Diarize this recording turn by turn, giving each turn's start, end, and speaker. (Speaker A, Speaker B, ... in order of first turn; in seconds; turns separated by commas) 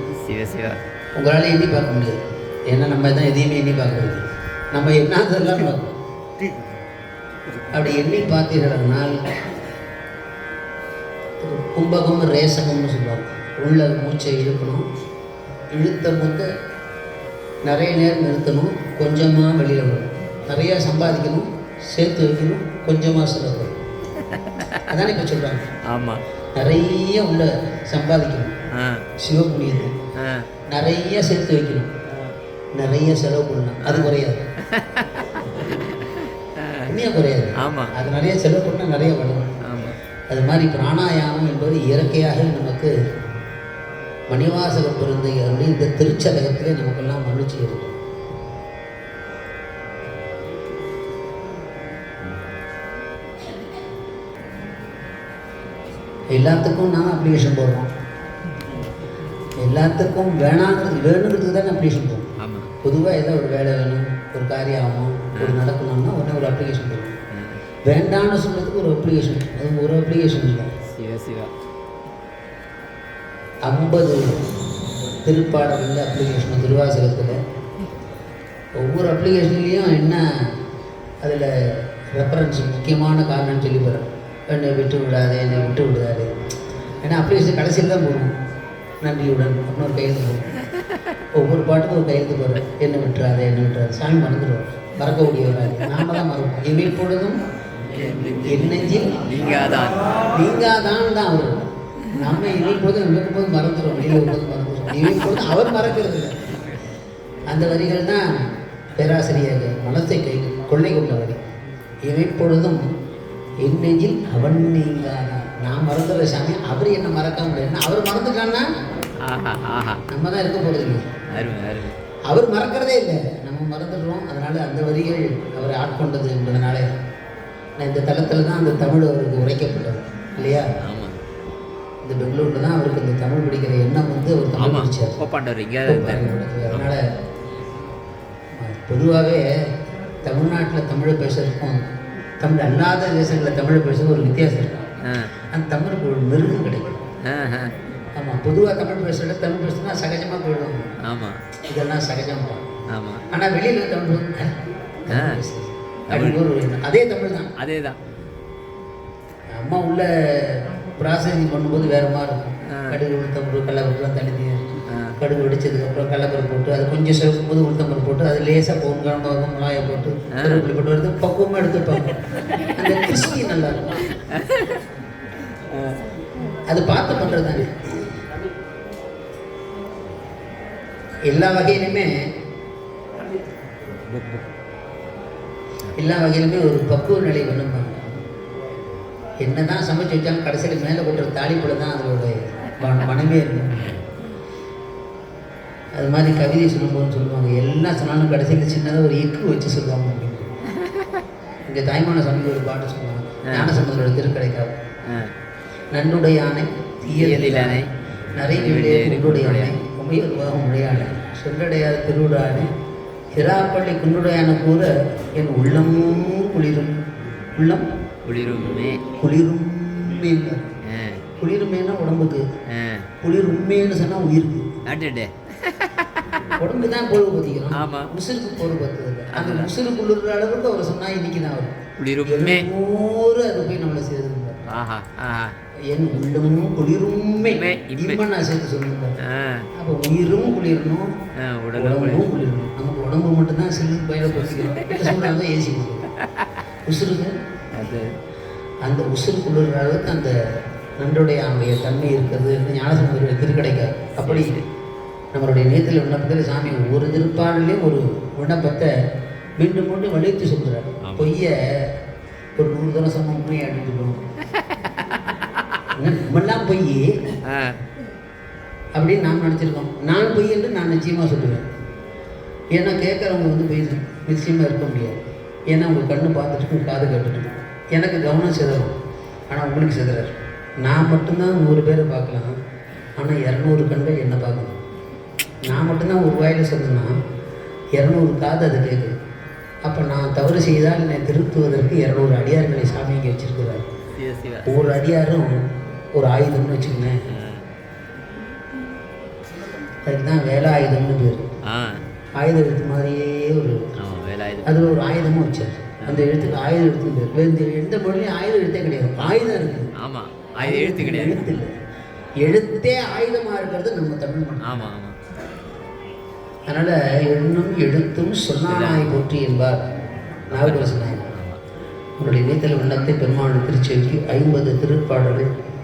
Speaker A: 0.3-0.8, Speaker B: 1.1-2.1, Speaker B: 2.7-5.9, Speaker B: 7.7-9.1, Speaker B: 11.4-14.8, Speaker B: 15.7-16.5, Speaker B: 17.6-23.7, Speaker A: 24.2-24.9, Speaker B: 24.9-25.7, Speaker A: 25.9-26.2, Speaker B: 26.6-28.5, Speaker A: 28.8-29.0, Speaker B: 29.2-29.9, Speaker A: 30.2-30.5, Speaker B: 30.7-31.9, Speaker B: 32.8-34.4, Speaker A: 33.8-34.1, Speaker A: 34.7-36.9, Speaker B: 36.9-39.6, Speaker A: 37.6-37.9, Speaker A: 39.7-39.9, Speaker B: 40.3-42.9, Speaker B: 44.3-48.0, Speaker B: 56.3-57.9, Speaker B: 59.6-62.3, Speaker A: 62.4-62.7, Speaker B: 62.8-67.2, Speaker B: 67.9-70.7, Speaker A: 71.0-71.5, Speaker B: 73.7-74.2, Speaker B: 75.2-77.4, Speaker B: 78.8-80.2, Speaker B: 81.2-86.3, Speaker B: 87.0-88.3, Speaker B: 89.0-90.5, Speaker B: 91.4-97.4, Speaker A: 97.9-100.0, Speaker B: 98.5-99.2, Speaker B: 100.3-106.4, Speaker B: 107.5-108.2, Speaker B: 109.0-111.4, Speaker B: 112.0-112.8, Speaker B: 113.6-118.7, Speaker A: 119.2-120.0, Speaker B: 120.1-121.1, Speaker A: 121.3-121.9, Speaker B: 122.3-126.8, Speaker B: 127.8-130.7, Speaker A: 130.8-131.2, Speaker B: 132.0-135.2, Speaker A: 134.6-136.9, Speaker B: 135.9-137.0, Speaker B: 138.6-139.4, Speaker B: 140.2-141.8, Speaker B: 142.4-144.8, Speaker B: 145.5-147.0, Speaker A: 147.2-147.7, Speaker B: 148.1-150.9, Speaker A: 151.1-151.4, Speaker B: 151.7-152.7, Speaker A: 152.9-153.2, Speaker B: 153.3-154.5, Speaker B: 155.0-157.5, Speaker A: 155.1-155.4, Speaker A: 156.1-156.4, Speaker A: 157.6-158.0, Speaker B: 159.6-174.1, Speaker A: 162.7-163.0, Speaker A: 164.9-165.1, Speaker A: 170.4-170.7, Speaker A: 174.3-174.8, Speaker A: 175.7-176.1, Speaker B: 176.7-178.2, Speaker B: 181.3-182.1, Speaker A: 184.1-184.4, Speaker B: 185.9-188.0, Speaker B: 189.4-194.0, Speaker B: 195.9-200.5, Speaker B: 201.7-204.7, Speaker A: 203.5-203.8, Speaker B: 205.9-207.8, Speaker A: 207.1-207.9, Speaker B: 208.3-212.7, Speaker A: 208.4-209.8, Speaker B: 213.3-216.9, Speaker B: 217.6-217.8, Speaker A: 218.2-219.0, Speaker B: 219.2-220.7, Speaker A: 220.9-221.2, Speaker B: 221.4-222.4, Speaker A: 222.7-223.1, Speaker B: 223.2-224.7, Speaker A: 224.8-226.5, Speaker B: 226.6-231.7, Speaker A: 227.7-228.1, Speaker A: 229.3-229.7, Speaker A: 232.0-232.7, Speaker B: 232.2-234.8, Speaker A: 234.7-235.6, Speaker B: 235.9-239.1, Speaker A: 237.4-238.2, Speaker A: 239.2-239.7, Speaker B: 239.8-241.1, Speaker A: 241.4-242.3, Speaker B: 241.8-246.1, Speaker A: 244.6-245.3, Speaker B: 246.8-247.3, Speaker A: 247.7-248.1, Speaker B: 248.8-250.3, Speaker B: 251.0-254.6, Speaker A: 254.2-254.6, Speaker B: 255.3-258.9, Speaker B: 259.6-261.5, Speaker A: 261.0-261.3, Speaker B: 262.6-264.2, Speaker B: 266.0-267.1, Speaker A: 267.4-267.8, Speaker B: 268.9-271.6, Speaker B: 272.7-275.2, Speaker B: 275.7-278.9, Speaker B: 279.5-280.3, Speaker B: 280.8-282.5, Speaker B: 283.2-284.8, Speaker B: 285.7-287.1, Speaker B: 288.0-289.1, Speaker B: 289.8-293.9, Speaker A: 294.2-294.8, Speaker B: 294.6-295.6, Speaker B: 296.1-297.1, Speaker A: 297.3-297.6, Speaker B: 300.1-301.4, Speaker A: 301.7-302.0, Speaker B: 302.4-303.8, Speaker A: 304.0-304.7, Speaker B: 304.6-309.9, Speaker A: 310.0-311.5, Speaker B: 310.6-311.7, Speaker B: 312.4-314.9, Speaker A: 314.6-315.1, Speaker B: 316.7-319.8, Speaker A: 318.6-319.2, Speaker B: 320.5-321.2, Speaker A: 320.5-321.6, Speaker B: 322.2-325.4